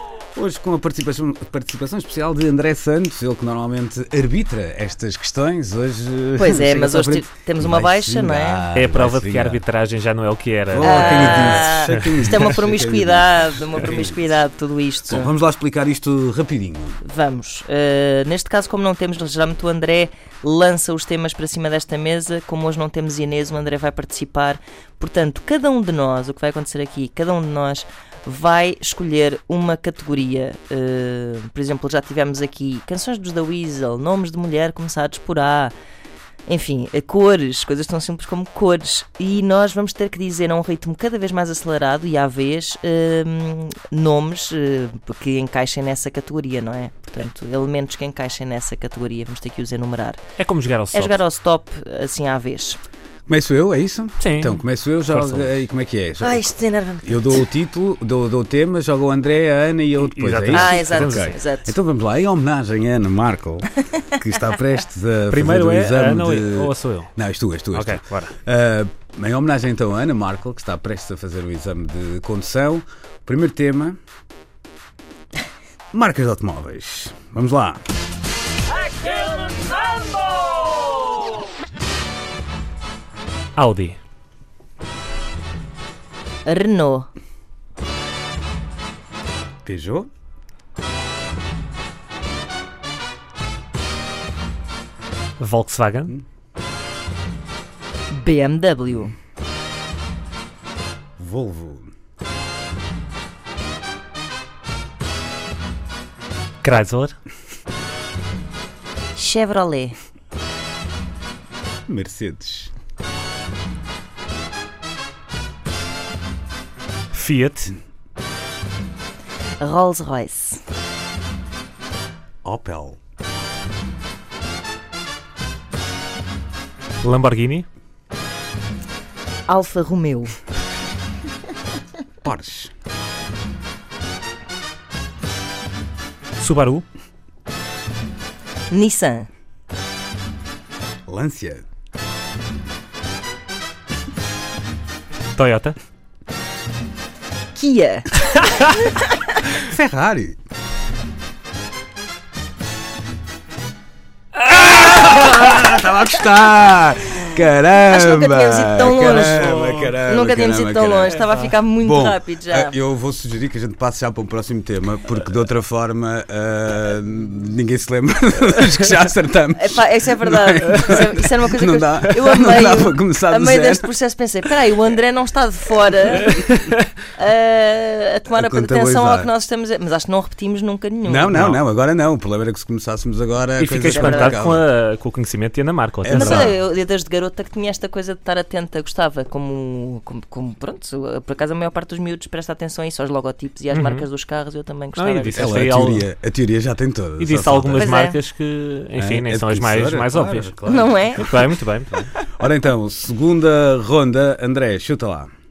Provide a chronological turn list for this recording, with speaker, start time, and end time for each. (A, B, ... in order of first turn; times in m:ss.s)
0:00.3-0:09.6 A
0:06.4-0:08.7 B
0:08.7-0:12.2 C
0:10.7-0:14.3 A
0:10.8-0:15.3 B
0:15.1-0:17.0 A
0:17.0-0:35.7 B
0:36.5-0:50.2 B
0:50.4-0:51.2 C
0:50.9-0:52.8 B
0:53.3-1:14.0 A
0:54.2-0:55.5 C
0:56.2-0:57.5 B
1:00.0-1:01.3 C
1:00.5-1:01.7 B
1:05.3-1:07.1 C
1:07.7-1:08.3 C
1:15.9-1:17.8 A
1:23.6-1:24.0 C
1:26.4-1:27.1 B
1:29.6-1:30.1 A
1:35.4-1:36.1 C
1:38.1-1:39.1 B
1:41.2-1:41.9 A
1:46.6-1:47.1 C
1:49.1-1:50.0 B
1:51.9-1:52.7 A
1:57.1-1:57.7 C
1:59.6-2:00.6 B
2:02.4-2:03.0 A
2:07.0-2:07.6 C
2:09.5-2:10.3 B
2:12.2-2:12.7 A
2:16.4-2:16.8 C
2:18.7-2:19.3 B
2:21.1-2:21.6 A
2:25.4-2:25.8 C
2:27.5-2:29.2 B
2:29.6-2:30.4 A
2:34.4-2:41.2 A
2:37.9-2:42.8 B
2:41.8-2:53.9 A
2:49.6-2:56.5 B
2:56.6-2:56.8 C
2:57.2-3:01.5 B
2:58.3-2:59.3 A
3:01.0-3:04.6 A
3:01.3-3:01.6 C
3:03.6-3:06.5 C
3:03.8-3:04.4 B
3:06.0-3:06.5 A
3:06.1-3:15.7 B
3:13.7-3:14.0 C
3:15.0-3:16.1 C
3:15.3-3:17.9 A
3:17.2-3:20.6 C
3:17.8-3:18.2 B
3:19.0-3:25.3 A
3:20.6-3:21.3 B
3:21.1-3:21.9 C